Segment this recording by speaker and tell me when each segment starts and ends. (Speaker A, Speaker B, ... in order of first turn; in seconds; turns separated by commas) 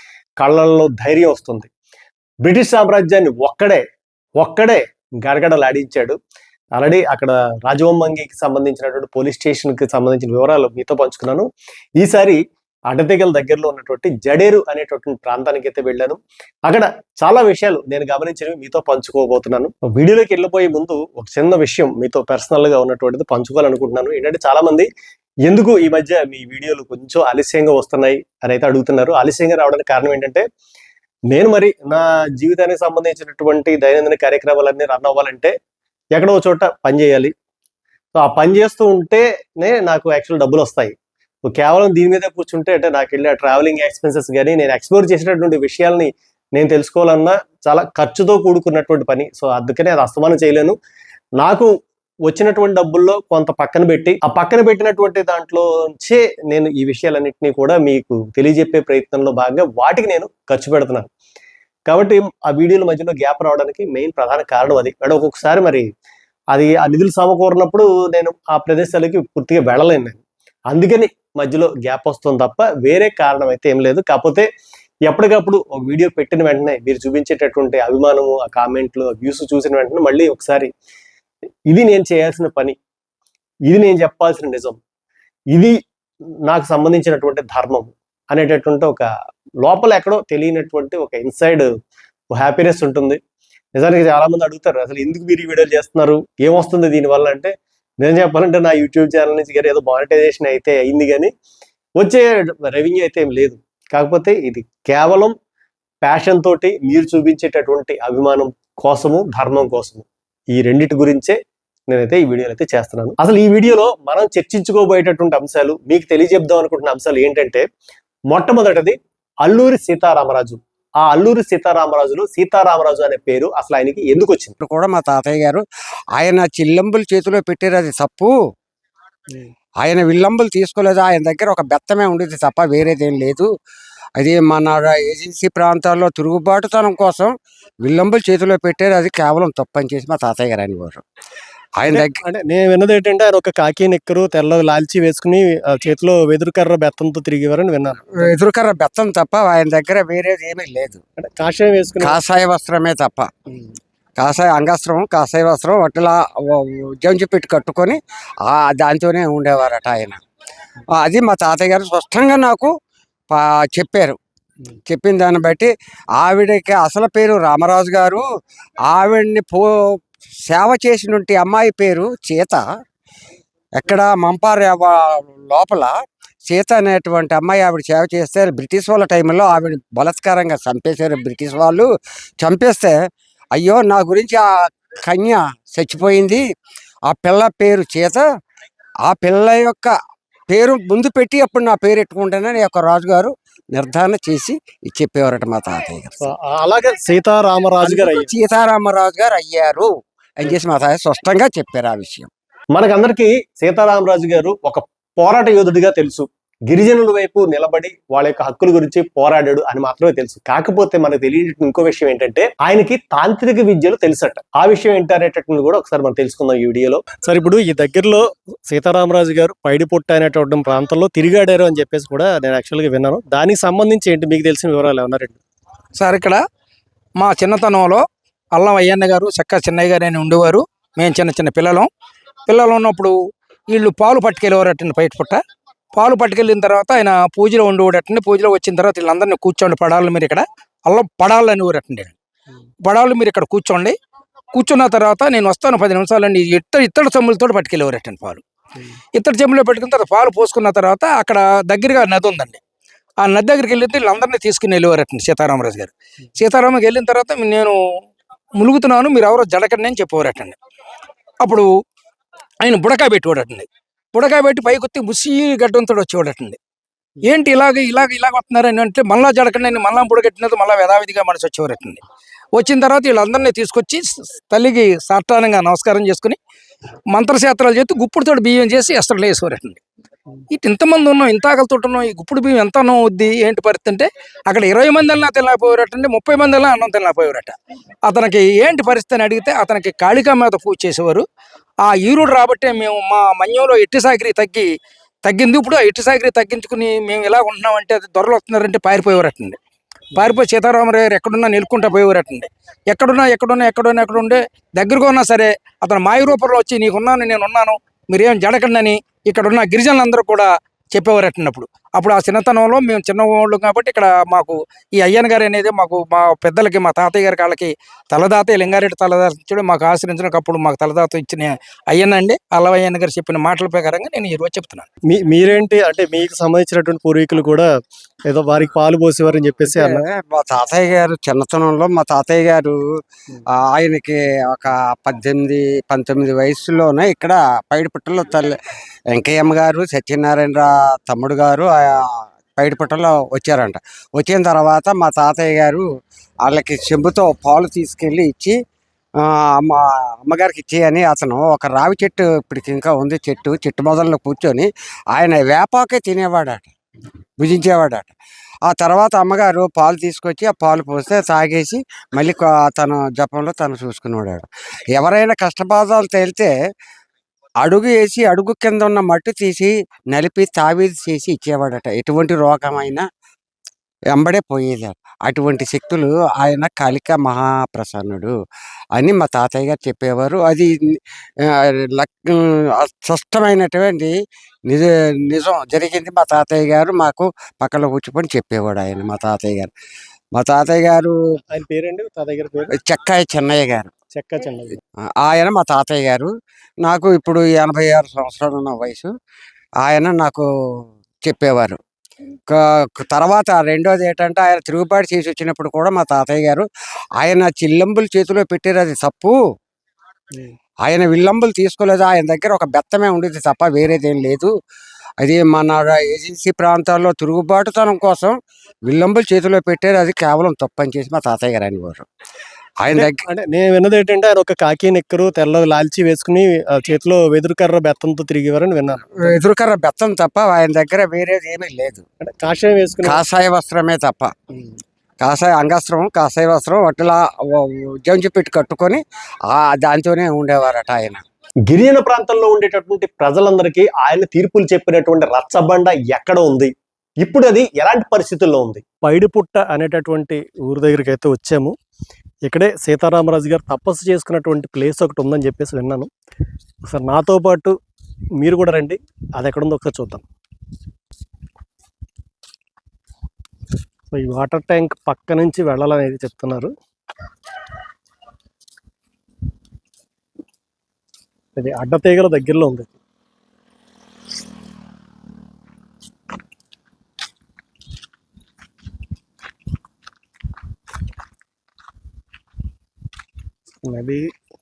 Speaker A: 0.4-1.7, Speaker A: 2.5-3.8, Speaker A: 4.4-6.2, Speaker A: 6.8-11.5, Speaker A: 12.0-12.4, Speaker A: 12.9-24.9, Speaker A: 25.5-30.4, Speaker A: 31.3-35.5, Speaker A: 36.1-37.3, Speaker A: 38.2-40.9, Speaker A: 41.5-50.8, Speaker A: 51.4-51.7, Speaker A: 52.3-61.1, Speaker A: 61.9-65.9, Speaker A: 66.5-74.5, Speaker A: 75.1-80.7, Speaker A: 81.7-82.8, Speaker A: 83.7-84.8, Speaker A: 86.5-89.1, Speaker A: 89.6-91.7, Speaker A: 92.3-93.2, Speaker A: 93.8-101.3, Speaker A: 102.0-105.3, Speaker A: 106.0-111.4, Speaker A: 111.9-117.7, Speaker A: 118.3-124.6, Speaker B: 124.6-125.6, Speaker B: 126.2-128.3, Speaker B: 129.8-133.5, Speaker B: 134.2-137.3, Speaker B: 137.8-141.0, Speaker B: 141.8-142.2, Speaker A: 141.9-148.2, Speaker B: 148.2-151.0, Speaker A: 151.2-152.2, Speaker B: 152.0-153.3, Speaker B: 154.2-160.2, Speaker B: 161.0-162.7, Speaker B: 163.3-164.2, Speaker B: 164.9-168.2, Speaker B: 168.9-169.7, Speaker B: 170.5-172.6, Speaker B: 173.8-175.9, Speaker B: 176.5-181.9, Speaker B: 182.4-182.9, Speaker B: 183.6-186.4, Speaker B: 187.1-188.2, Speaker B: 189.1-189.9, Speaker B: 190.5-196.3, Speaker A: 196.2-198.3, Speaker B: 197.8-202.3, Speaker A: 202.7-225.4, Speaker C: 226.0-226.4, Speaker C: 227.2-231.9, Speaker C: 232.5-233.2, Speaker C: 233.7-235.4, Speaker C: 236.0-242.1, Speaker C: 242.8-243.9, Speaker C: 244.5-248.4, Speaker C: 249.2-252.6, Speaker C: 253.2-257.8, Speaker C: 258.6-260.6, Speaker C: 261.4-261.7, Speaker C: 262.6-266.6, Speaker C: 267.2-272.0, Speaker C: 272.6-276.4, Speaker C: 277.1-279.8, Speaker C: 280.5-287.6, Speaker C: 288.1-291.2, Speaker C: 291.9-294.7, Speaker C: 295.2-299.6, Speaker C: 300.1-324.9, Speaker A: 325.1-327.7, Speaker A: 328.3-330.0, Speaker B: 329.7-332.8, Speaker B: 333.5-338.6, Speaker B: 339.1-345.8, Speaker B: 346.5-348.6, Speaker B: 349.2-356.7, Speaker B: 357.4-358.1, Speaker B: 358.7-366.5, Speaker B: 367.6-373.1, Speaker B: 374.1-378.3, Speaker B: 378.9-384.1, Speaker B: 384.7-389.7, Speaker B: 390.4-391.1, Speaker A: 391.5-392.8, Speaker B: 392.7-393.9, Speaker A: 394.1-394.8, Speaker B: 395.2-396.3, Speaker B: 396.8-399.1, Speaker B: 399.8-400.5, Speaker B: 401.2-401.8, Speaker B: 402.5-409.4, Speaker B: 410.9-414.5, Speaker B: 415.2-418.4, Speaker B: 418.9-422.1, Speaker B: 422.8-423.2, Speaker A: 422.9-429.3, Speaker B: 429.2-432.0, Speaker A: 432.2-433.2, Speaker B: 433.0-434.4, Speaker B: 435.2-441.2, Speaker A: 441.7-446.7, Speaker A: 447.2-451.7, Speaker A: 452.4-456.1, Speaker A: 456.9-457.8, Speaker A: 458.4-460.2, Speaker A: 464.1-466.7, Speaker A: 471.6-473.0, Speaker A: 483.8-484.2